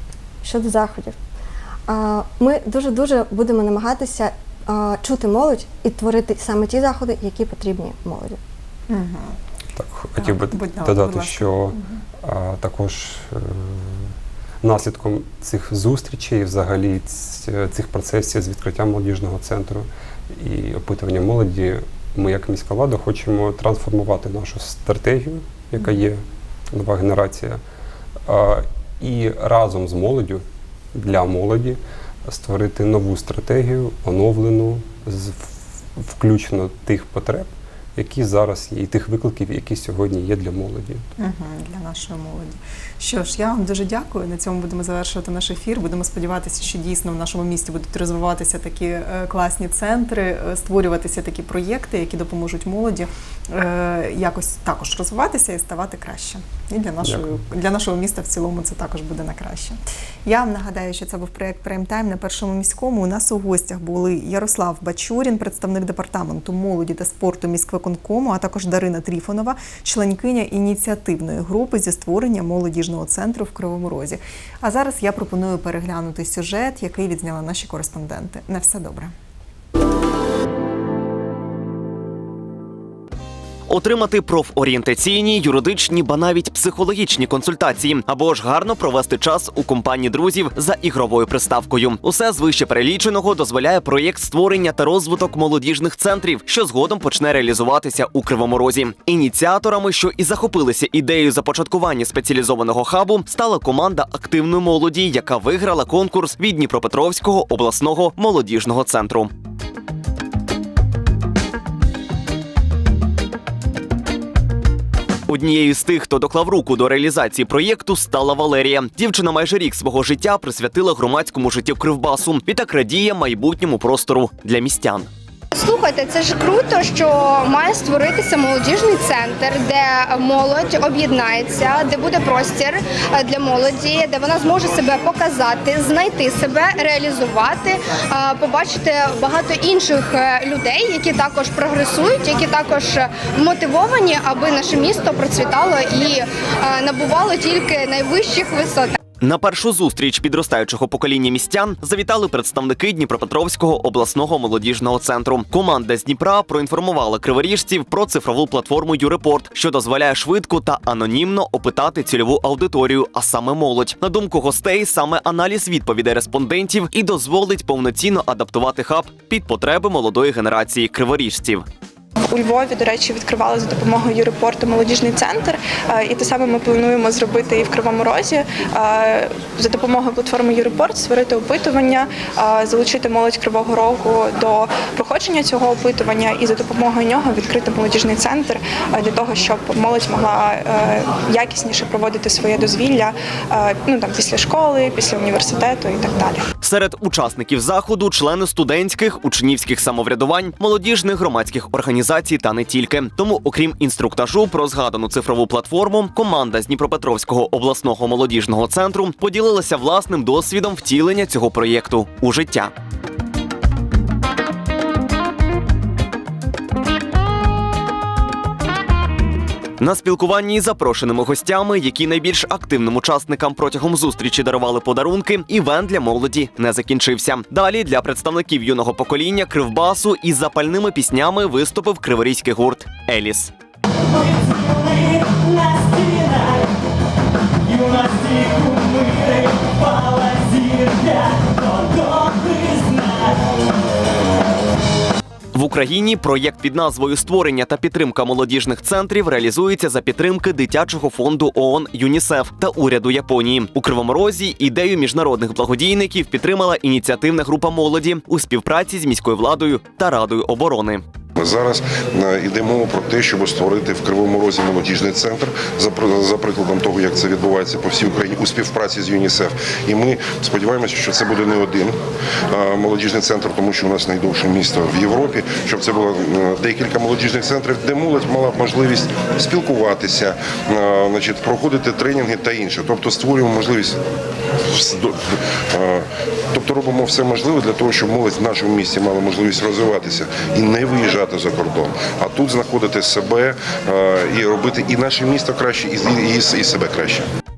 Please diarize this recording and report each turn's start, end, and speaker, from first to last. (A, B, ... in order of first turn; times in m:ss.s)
0:00.4-0:01.2 A
0:01.9-0:08.4 A
0:08.9-0:09.4 B
0:09.8-0:14.1 C
0:10.2-0:12.0 B
0:14.6-0:26.2 C
0:26.7-0:27.6 C
0:28.3-0:30.4 C
0:31.0-0:41.0 C
0:41.2-1:19.1 B
1:23.7-1:49.3 D
1:55.3-2:05.1 D
2:05.5-2:29.0 E
2:29.2-2:51.6 D
2:52.3-3:16.5 F
3:16.6-3:32.7 D
3:39.8-3:53.5 D
3:54.4-3:56.7 D
3:57.7-4:03.2 D
4:05.5-4:21.0 D
4:21.4-4:32.0 G
4:32.5-4:44.0 G
4:44.7-4:57.3 G